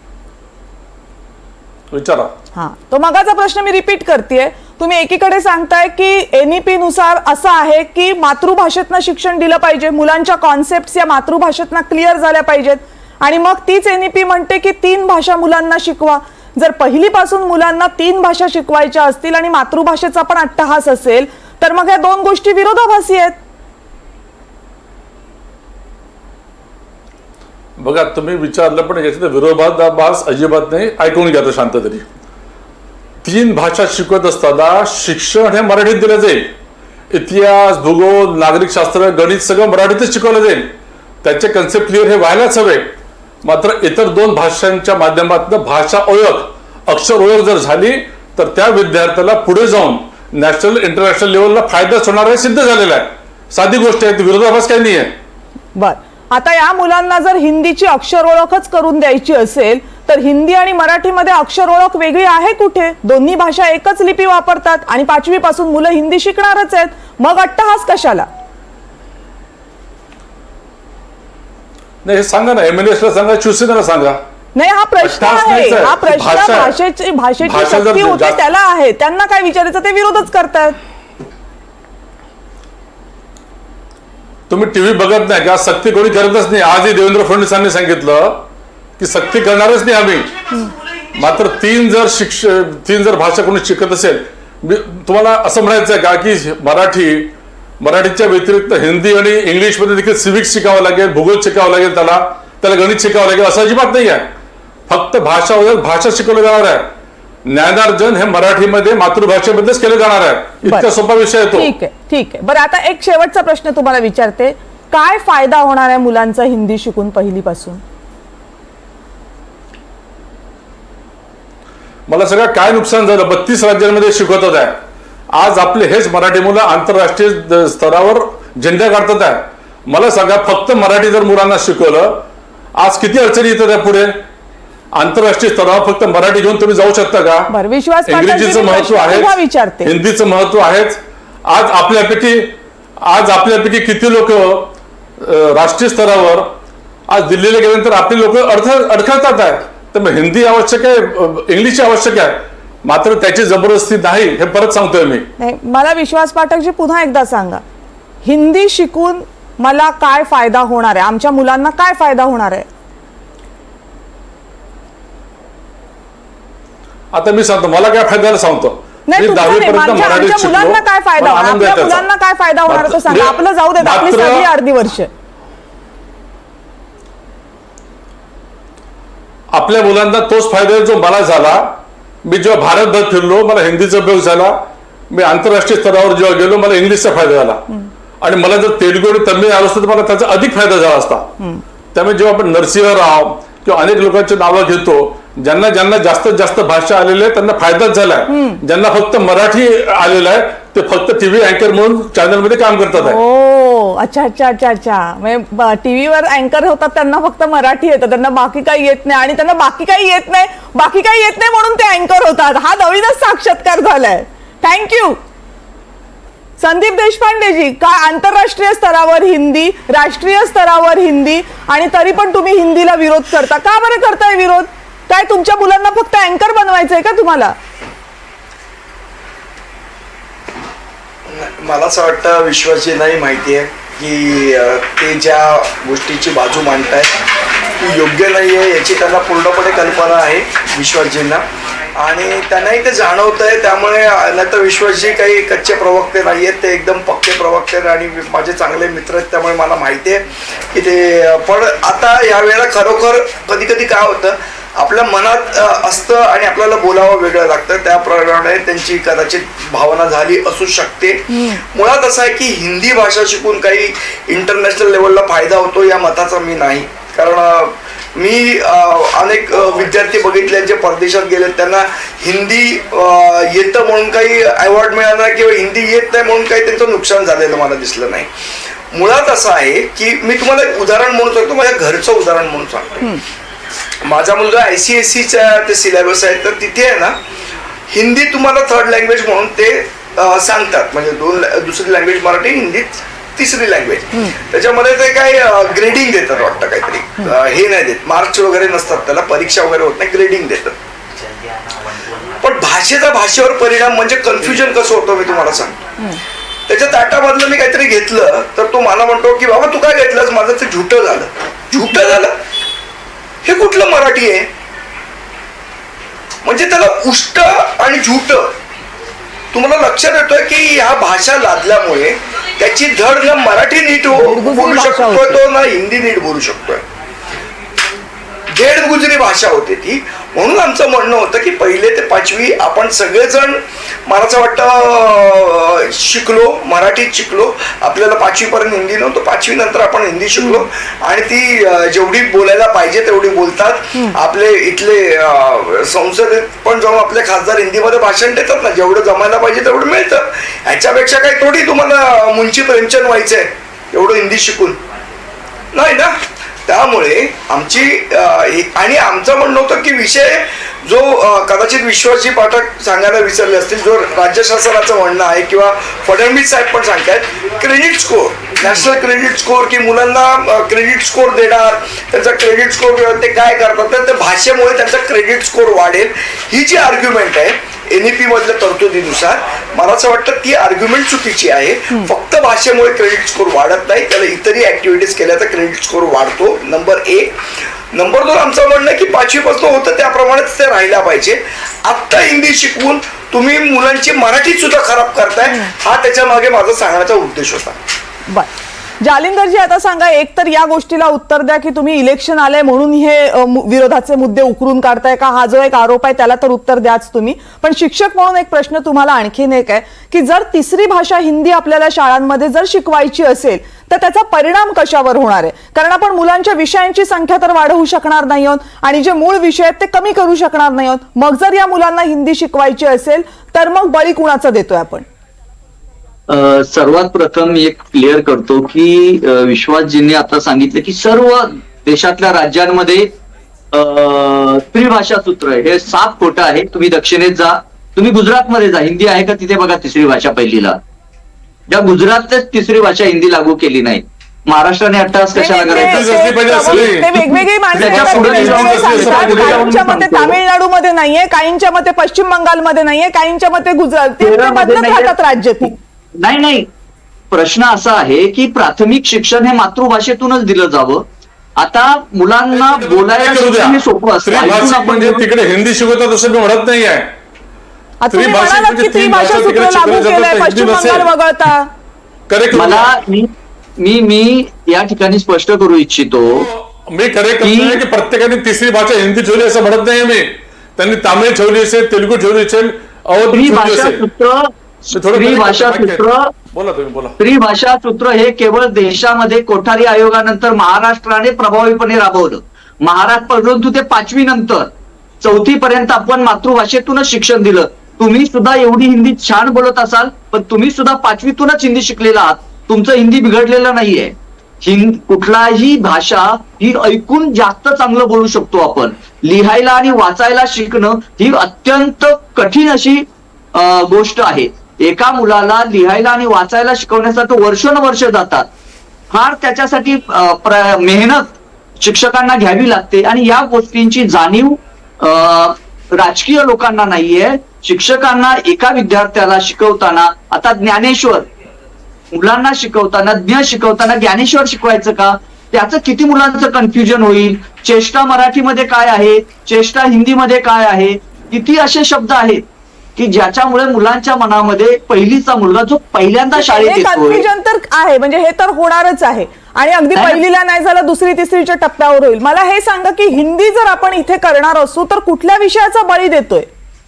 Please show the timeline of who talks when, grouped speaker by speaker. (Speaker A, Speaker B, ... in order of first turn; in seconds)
Speaker A: 1.9-2.3, 27.8-32.1, 33.2-36.5, 37.1-55.1, 72.0-74.2, 75.0-76.8, 77.4-78.4, 84.5-88.5, 89.0-90.4, 91.2-104.3, 104.9-106.9, 107.5-111.7, 122.1-124.8, 125.3-134.2, 134.9-137.5, 138.1-146.5, 147.1-155.3, 167.1-172.1, 172.7-174.5, 179.5-187.7, 188.2-191.3, 191.9-203.2, 445.7-449.7, 462.6-467.1, 468.1-471.1, 472.3-473.0, 476.2-484.0, 484.9-487.2
Speaker B: 2.5-23.4, 55.8-68.3, 74.6-80.8, 111.5-117.8, 137.5-139.9, 155.4-157.6, 158.2-162.7, 169.1-175.1, 198.3-198.6, 203.0-215.2, 216.6-227.6, 261.3-261.6, 324.1-325.4, 340.4-340.6, 399.0-425.1, 445.4-455.8, 468.0-471.7, 546.4-556.5
Speaker C: 231.3-237.2, 237.8-278.3, 278.9-283.1, 284.0-287.2, 287.9-300.8, 302.4-305.8, 306.7-312.4, 313.4-314.5, 316.4-318.6, 319.5-326.8, 328.5-354.8, 355.7-397.8
Speaker D: 426.3-433.1, 433.7-440.8, 441.7-446.1, 447.8-450.4, 454.2-456.7, 457.3-461.1, 461.6-465.3, 472.5-476.5, 477.4-477.8, 483.3-486.3, 487.2-494.7, 495.2-518.5, 519.1-531.3, 532.1-542.4, 543.0-547.3, 550.0-550.2